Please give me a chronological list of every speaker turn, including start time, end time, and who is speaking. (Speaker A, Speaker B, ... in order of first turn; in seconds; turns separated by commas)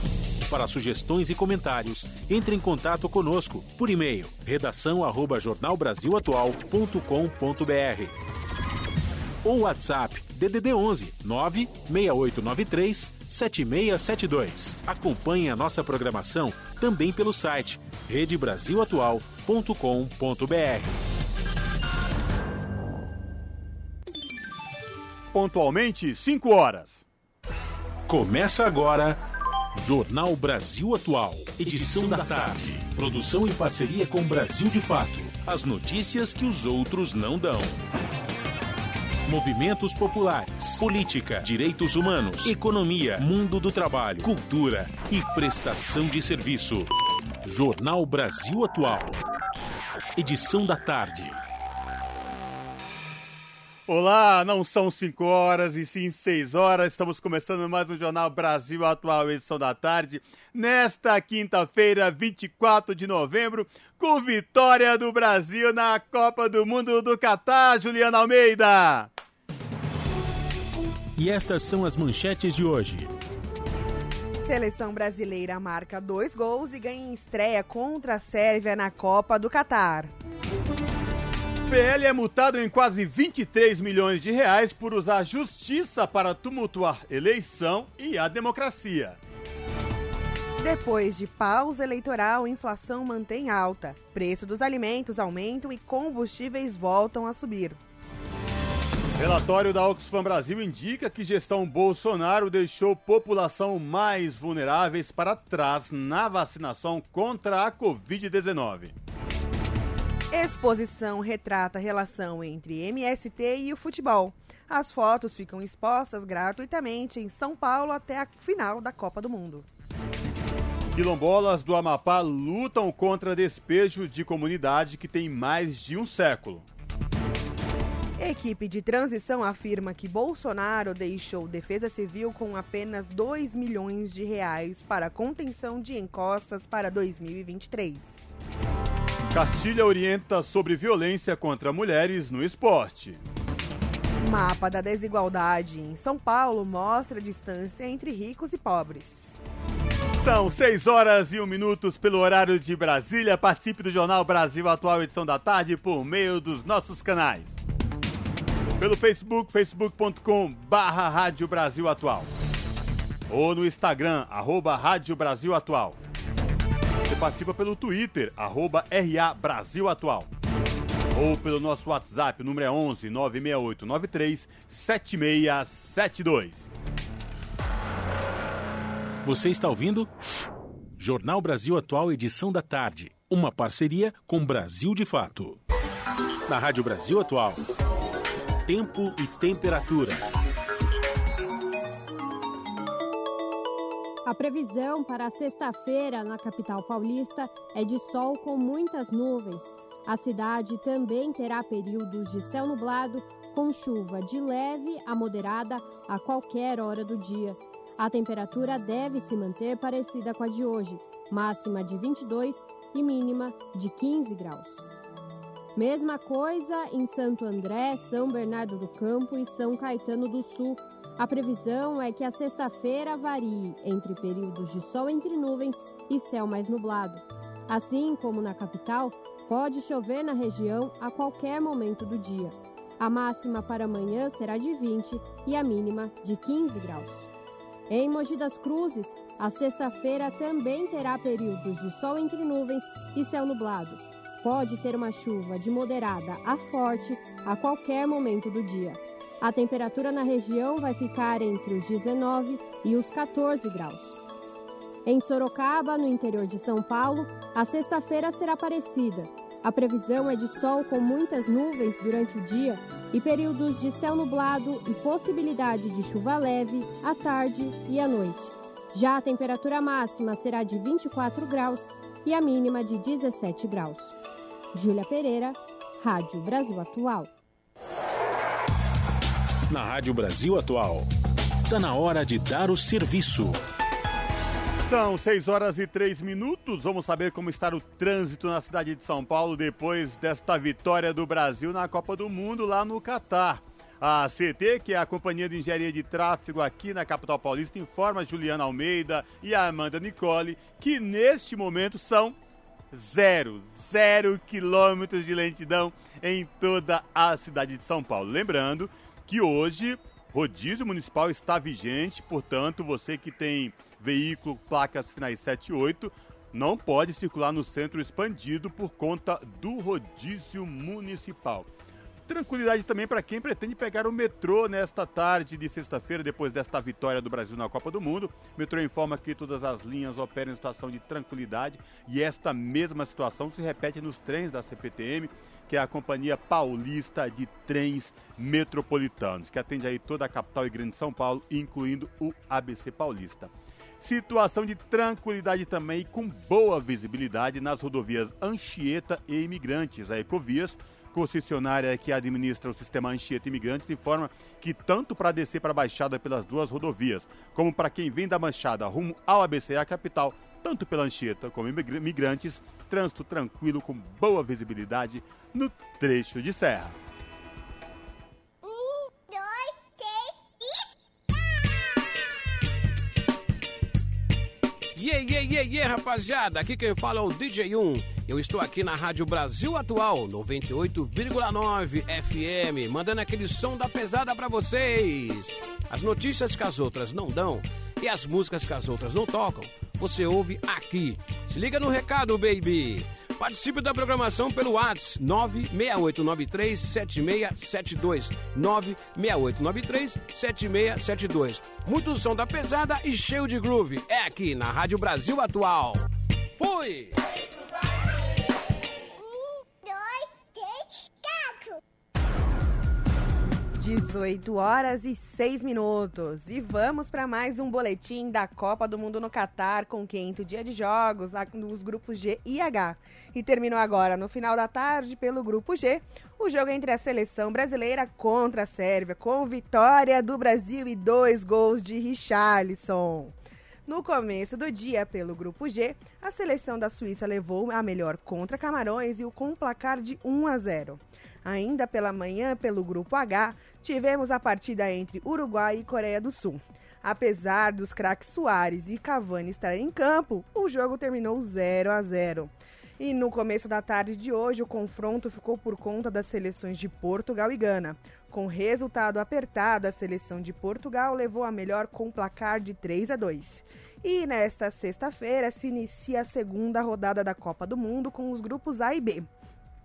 Speaker A: 0.5-8.1, Speaker A: 9.4-20.9, Speaker B: 25.3-27.0, Speaker A: 28.1-29.2, Speaker A: 29.8-37.8, Speaker A: 39.3-46.9, Speaker A: 47.4-49.2, Speaker A: 50.2-51.4, Speaker B: 53.9-69.1, Speaker A: 71.2-73.2, Speaker C: 74.4-80.1, Speaker B: 81.7-89.2, Speaker C: 90.6-97.8, Speaker B: 99.2-108.9, Speaker C: 110.3-119.7, Speaker B: 121.0-126.7, Speaker C: 128.2-138.2, Speaker B: 139.3-143.2, Speaker C: 144.2-149.4, Speaker B: 150.2-157.6, Speaker B: 158.8-162.3, Speaker B: 163.3-166.0, Speaker B: 167.1-170.3, Speaker B: 171.1-176.7, Speaker A: 179.2-180.1, Speaker A: 181.0-185.6, Speaker A: 186.5-187.6, Speaker A: 188.7-190.2, Speaker D: 194.3-214.8, Speaker D: 215.8-237.3, Speaker D: 237.9-254.2, Speaker D: 255.1-274.1, Speaker D: 274.7-277.3, Speaker A: 279.7-281.1, Speaker A: 281.7-283.6, Speaker B: 284.9-302.4, Speaker B: 302.9-321.7, Speaker B: 322.3-366.9, Speaker E: 375.0-406.0, Speaker E: 406.6-407.1, Speaker C: 413.8-433.3, Speaker C: 433.9-469.3